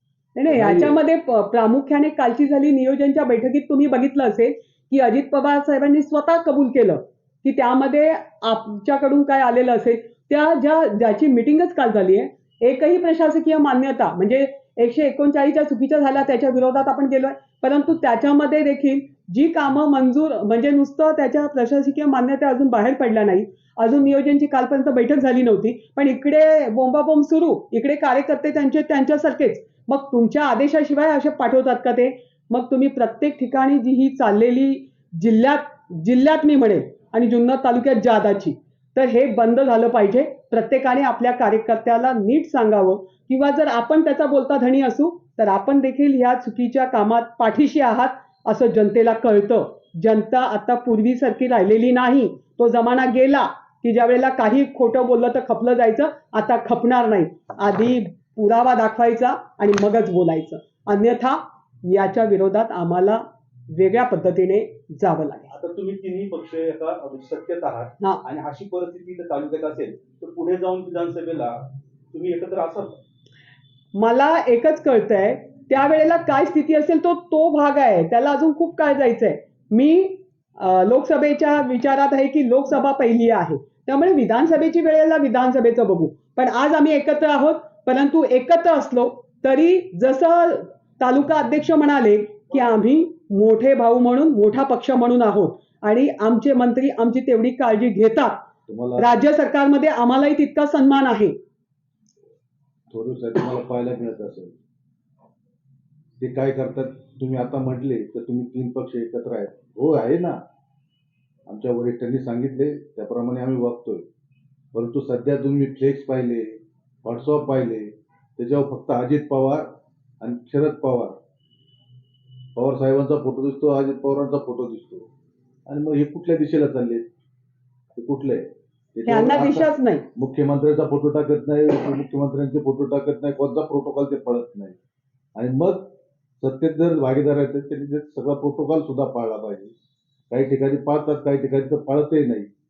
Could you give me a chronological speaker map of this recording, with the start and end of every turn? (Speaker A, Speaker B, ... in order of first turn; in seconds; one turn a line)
Speaker A: 0.3-65.5
Speaker B: 0.5-0.9
Speaker C: 65.5-73.0
Speaker A: 73.9-98.4
Speaker B: 98.7-99.1
Speaker A: 99.0-101.3
Speaker B: 102.9-104.5
Speaker B: 106.2-110.4
Speaker B: 111.5-114.1
Speaker B: 114.7-121.2
Speaker B: 122.5-125.1
Speaker B: 125.7-127.1
Speaker B: 127.9-134.7
Speaker A: 129.1-130.1
Speaker B: 135.3-139.7
Speaker B: 140.3-142.5